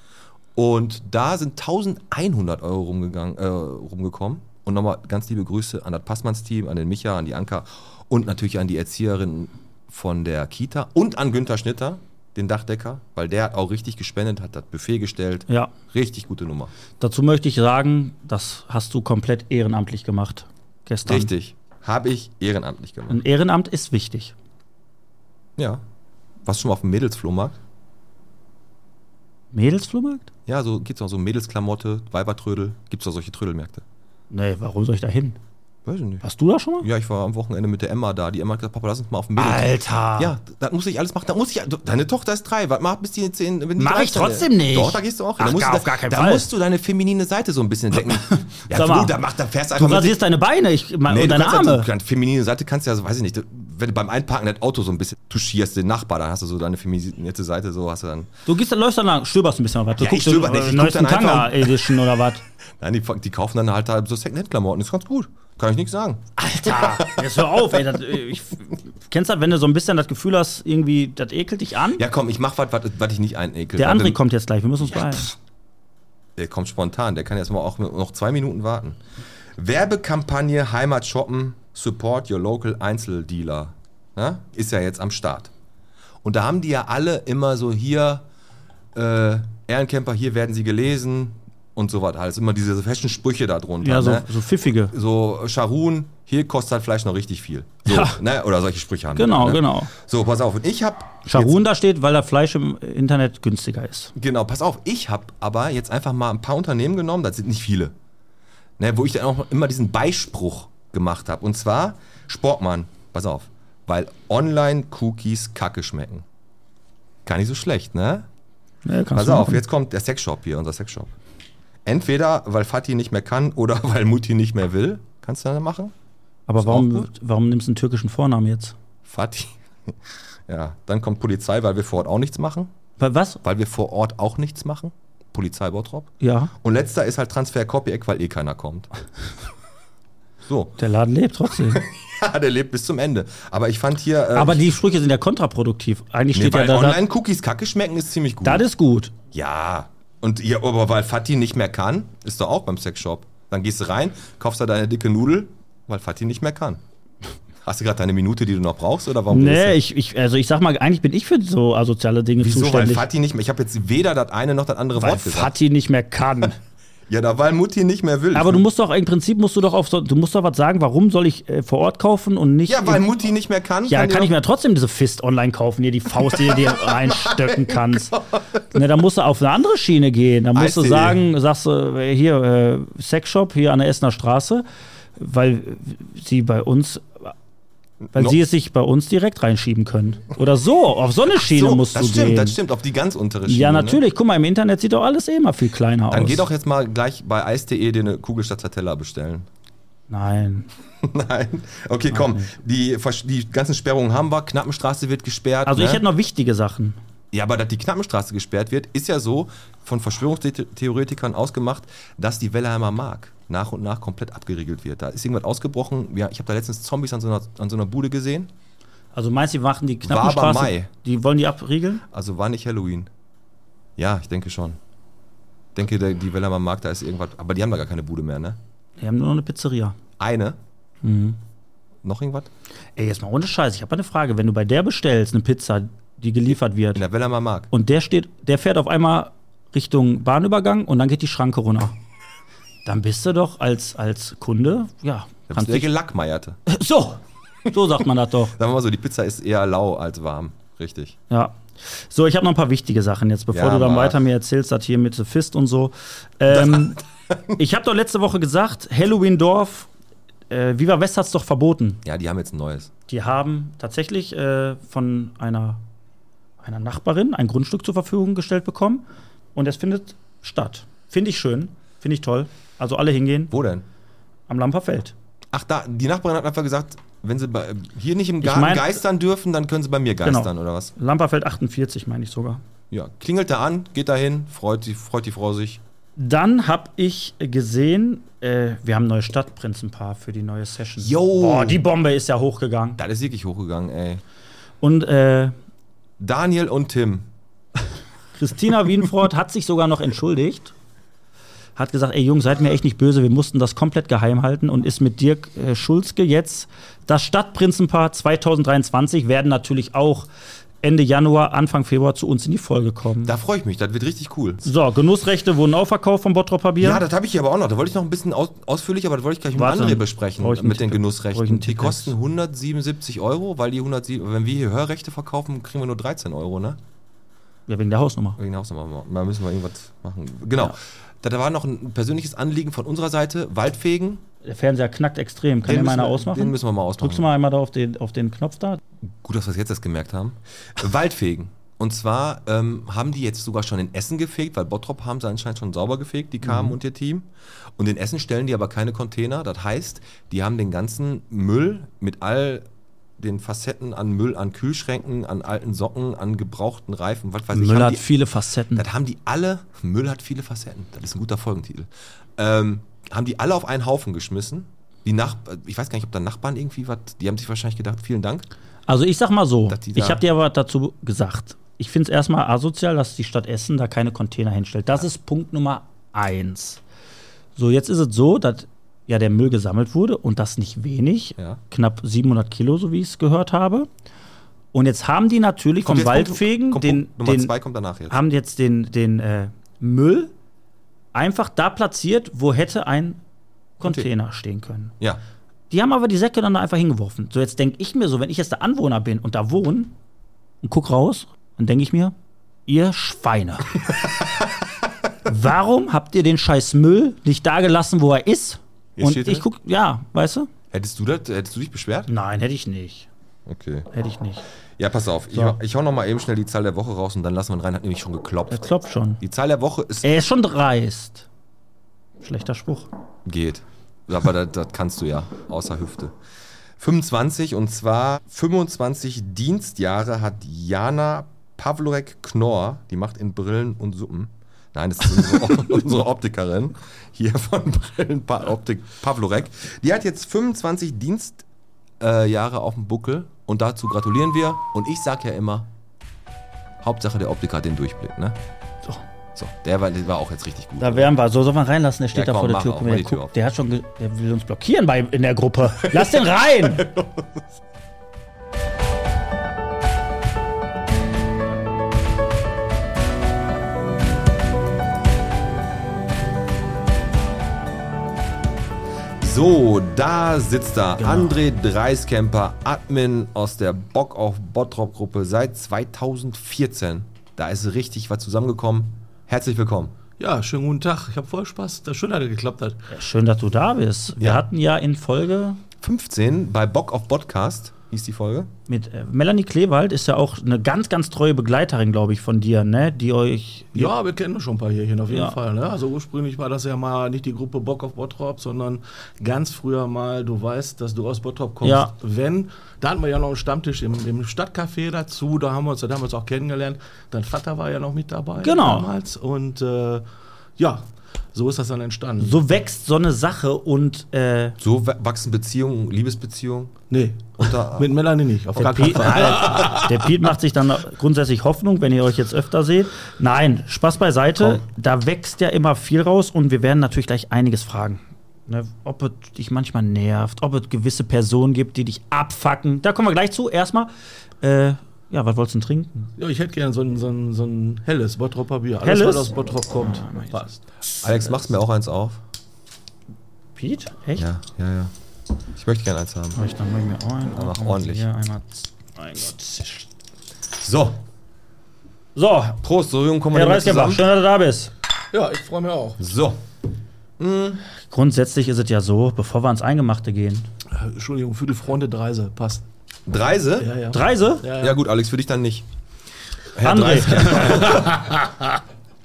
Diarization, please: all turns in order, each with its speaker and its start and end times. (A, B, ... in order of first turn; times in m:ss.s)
0:00.6-0:16.7 A
0:17.0-0:21.3 B
0:21.0-0:23.2 A
0:23.1-0:24.3 B
0:25.6-0:25.8 A
0:26.4-0:27.6 A
0:29.5-0:30.3 B
0:30.5-0:33.8 A
0:34.3-0:35.4 B
0:35.8-0:36.2 A
0:36.2-0:36.9 B
0:36.8-0:50.2 A
0:39.4-0:40.3 B
0:43.8-0:46.5 B
0:48.5-0:49.1 B
0:49.7-0:51.9 B
0:51.1-0:58.3 A
0:58.4-1:02.4 B
1:00.0-1:02.0 A
1:02.8-1:07.6 A
1:06.4-1:12.0 B
1:11.9-1:14.2 A
1:13.8-1:15.3 B
1:16.4-1:19.0 A
1:19.6-1:25.5 A
1:26.2-1:28.2 A
1:28.9-1:34.3 A
1:33.8-1:34.9 B
1:34.9-1:41.6 A
1:37.9-1:38.2 B
1:39.1-1:39.9 B
1:41.2-1:44.1 B
1:44.2-1:47.9 A
1:48.8-1:56.2 A
1:57.2-1:58.3 A
1:58.8-1:59.6 B
1:59.1-2:01.1 A
2:01.8-2:05.9 A
2:06.5-2:08.7 B
2:06.6-2:07.1 A
2:09.0-2:09.9 A
2:10.5-2:12.7 A
2:13.0-2:13.4 B
2:13.4-2:18.9 A
2:16.2-2:16.5 B
2:20.4-2:20.8 A
2:20.8-2:21.8 B
2:21.7-2:24.7 A
2:24.3-2:27.0 B
2:26.3-2:28.6 A
2:28.4-2:29.1 B
2:29.3-2:36.8 A
2:37.6-2:39.8 A
2:39.3-2:43.0 B
2:42.4-2:45.6 A
2:45.0-2:46.6 B
2:47.1-2:48.6 A
2:48.3-2:53.0 B
2:52.6-2:54.3 A
2:53.9-2:58.2 B
2:56.2-2:58.4 A
2:58.7-3:04.6 B
3:00.5-3:01.2 A
3:05.2-3:07.3 B
3:08.0-3:08.4 A
3:08.1-3:12.6 B
3:11.4-3:14.0 A
3:13.4-3:16.4 B
3:16.1-3:19.5 A
3:20.1-3:20.7 B
3:21.0-3:26.0 A
3:22.1-3:22.5 B
3:25.6-3:27.0 B
3:27.3-3:38.5 A
3:39.1-3:42.0 B
3:40.0-3:40.9 A
3:42.1-3:43.1 A
3:44.0-3:44.8 A
3:45.7-3:48.6 A
3:49.0-3:50.0 B
3:50.2-3:50.6 A
3:51.0-3:51.4 B
3:52.0-3:52.5 A
3:53.0-3:57.0 B
3:56.9-3:57.7 A
3:57.7-4:01.9 B
4:02.8-4:05.9 B
4:05.5-4:06.6 A
4:06.7-4:08.5 B
4:08.5-4:11.2 A
4:11.3-4:17.0 B
4:13.5-4:14.2 A
4:16.5-4:17.5 A
4:17.6-4:19.9 B
4:20.5-4:22.0 B
4:22.0-4:22.9 A
4:23.1-4:25.8 B
4:26.6-4:29.0 B
4:29.5-4:33.5 B
4:33.5-4:33.8 A
4:34.5-4:35.1 B
4:35.5-4:40.9 A
4:38.4-4:39.0 B
4:40.2-4:42.6 B
4:42.9-4:45.8 A
4:46.2-4:53.0 B
4:51.0-4:51.8 A
4:53.0-4:54.2 A
4:54.8-4:55.5 B
4:56.2-4:57.2 A
4:58.4-5:00.7 B
5:01.8-5:10.3 B
5:10.8-5:13.3 B
5:13.2-5:14.7 A
5:14.6-5:17.0 B
5:16.8-5:26.8 A
5:19.5-5:22.1 B
5:27.7-5:28.4 B
5:28.4-5:34.2 A
5:34.4-5:38.8 B
5:35.6-5:37.3 A
5:39.2-5:52.6 A
5:46.4-5:46.7 B
5:53.2-5:58.1 A
5:57.5-5:58.8 B
5:58.7-6:08.4 A
6:08.9-6:16.8 B
6:09.7-6:10.2 A
6:17.6-6:23.9 B
6:24.7-6:27.5 B
6:25.8-6:28.2 A
6:28.1-6:30.3 B
6:31.1-6:33.2 B
6:33.8-6:34.9 B
6:33.8-6:34.1 A
6:35.7-6:39.9 B
6:40.6-6:42.1 B
6:42.7-6:43.8 B
6:45.2-6:50.5 B
6:49.0-6:49.5 A
6:50.7-6:52.1 A
6:52.1-6:53.1 B
6:53.4-6:53.9 A
6:53.9-6:54.4 B
6:54.8-6:58.7 A
6:58.5-6:59.2 B
6:59.2-7:00.1 A
7:00.0-7:01.3 B
7:02.2-7:02.9 B
7:03.2-7:06.1 A
7:06.8-7:21.4 A
7:22.0-7:25.7 A
7:26.8-7:28.4 A
7:29.4-7:31.1 A
7:30.8-7:36.8 B
7:32.1-7:33.3 A
7:35.8-7:37.2 A
7:49.2-7:59.9 A
7:51.0-7:51.4 B
8:00.2-8:02.8 C
8:02.9-8:05.6 B
8:04.2-8:04.4 A
8:05.8-8:08.5 A
8:08.7-8:13.9 B
8:13.7-8:30.0 C
8:15.1-8:15.3 B
8:21.6-8:21.9 B
8:28.4-8:28.9 B
8:30.6-8:32.4 C
8:32.2-8:34.6 B
8:34.6-8:36.8 A
8:36.9-8:40.1 C
8:37.4-8:37.9 A
8:38.6-8:56.1 B
8:56.2-9:00.6 C
8:58.8-9:00.4 B
9:01.0-9:02.2 A
9:03.6-9:04.2 B
9:04.2-9:04.9 A
9:05.5-9:06.4 A
9:06.3-9:09.9 B
9:07.3-9:08.1 A
9:10.6-9:11.0 A
9:12.2-9:12.6 B
9:12.6-9:14.0 A
9:13.3-9:14.7 B
9:15.1-9:16.0 C
9:16.0-9:16.4 A
9:17.2-9:17.6 A
9:17.9-9:20.5 B
9:20.7-9:22.6 C
9:23.1-9:23.7 A
9:23.6-9:24.8 C
9:23.9-9:24.4 B
9:24.6-9:25.6 A
9:26.5-9:28.1 A
9:26.6-9:27.8 B
9:27.4-9:28.0 C